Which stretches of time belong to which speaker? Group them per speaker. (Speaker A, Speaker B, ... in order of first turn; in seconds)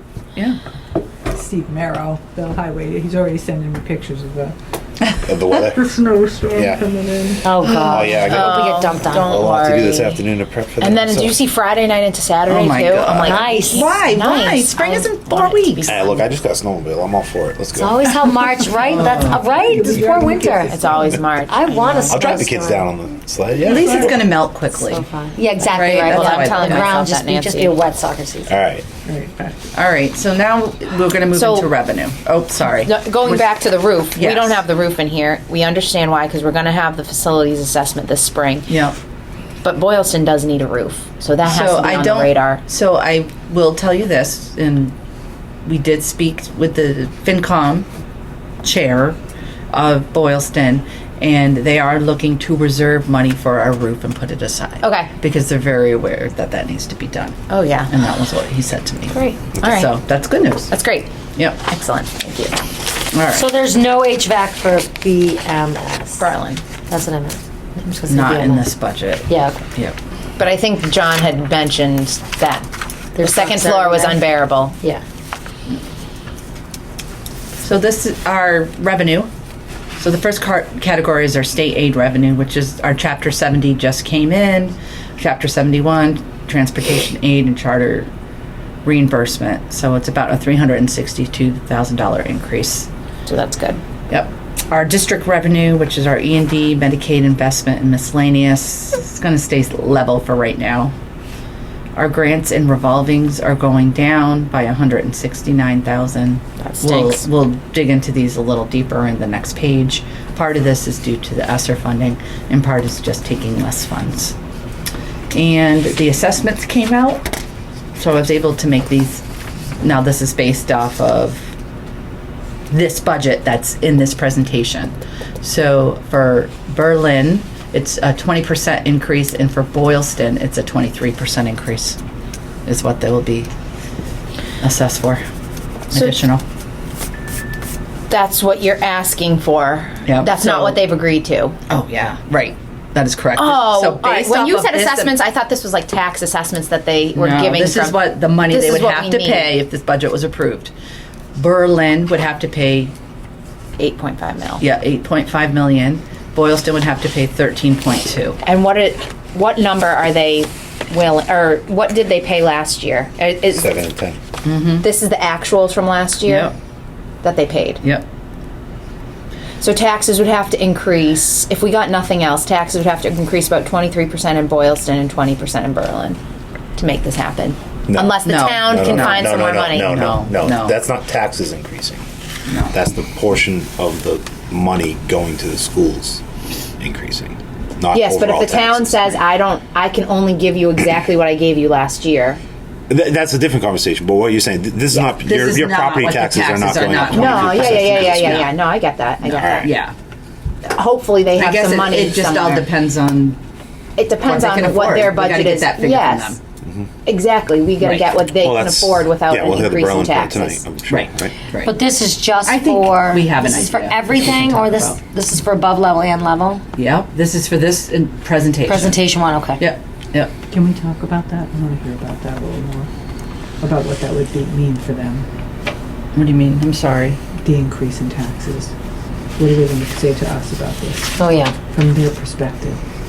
Speaker A: 1.3-4.5, 5.6-7.5, 18.4-21.1, 23.7-24.2, 29.1-29.6, 220.5-222.9, 223.6-225.3, 227.3-228.7, 229.4-231.2, 231.7-232.8
Speaker B: 5.3-5.8, 6.5-6.8, 7.7-11.4, 15.8-18.1, 20.9-21.2, 22.1-24.2, 28.5-28.9, 163.6-164.2, 177.9-182.0, 182.7-186.2, 186.8-189.2, 192.9-198.5, 199.3-199.7, 208.4-211.3
Speaker C: 7.5-9.3, 13.2-13.9, 17.8-22.5, 24.7-28.6, 63.3-66.3, 66.9-68.7, 69.3-69.6, 73.2-75.0, 211.6-216.6, 218.7-219.7, 231.2-231.6
Speaker D: 7.6-8.1, 12.5-16.0, 18.8-19.5, 23.6-25.1, 25.7-27.0, 29.7-33.5, 34.1-34.6, 38.7-39.0, 41.4-44.9, 45.7-47.9, 48.6-49.2, 49.7-57.4, 57.9-60.7, 63.1-63.5, 68.1-70.0, 77.6-79.3, 80.0-88.1, 88.8-92.9, 94.1-100.9, 102.0-114.3, 115.3-117.3, 118.0-119.2, 119.8-121.5, 122.7-132.0, 132.7-133.5, 134.6-135.2, 135.9-136.4, 140.1-140.8, 141.7-145.2, 147.2-150.7, 151.3-152.9, 154.6-158.4, 164.4-164.9, 166.3-166.5, 178.2-180.8, 182.5-182.8, 194.9-198.5, 199.4-199.9, 201.3-203.4, 204.2-206.4, 207.8-208.1, 210.9-211.8, 212.4-215.0, 216.8-220.4, 226.1-227.2
Speaker E: 8.0-10.2, 10.8-16.3, 20.7-22.9, 25.4-27.8, 31.3-31.7, 32.7-38.8, 39.6-42.6, 54.8-55.1, 57.5-57.9, 59.1-59.9, 60.7-61.1, 61.6-62.6, 66.2-66.6, 70.4-72.7, 73.2-74.8, 93.3-93.8, 106.6-107.3, 135.9-136.2, 138.1-141.6, 143.3-149.5, 153.8-154.6, 158.4-163.8, 164.8-166.5, 167.2-167.8, 169.6-176.2, 176.8-179.9, 187.9-192.4, 197.0-199.7, 200.6-202.7, 204.0-206.4, 207.1-210.6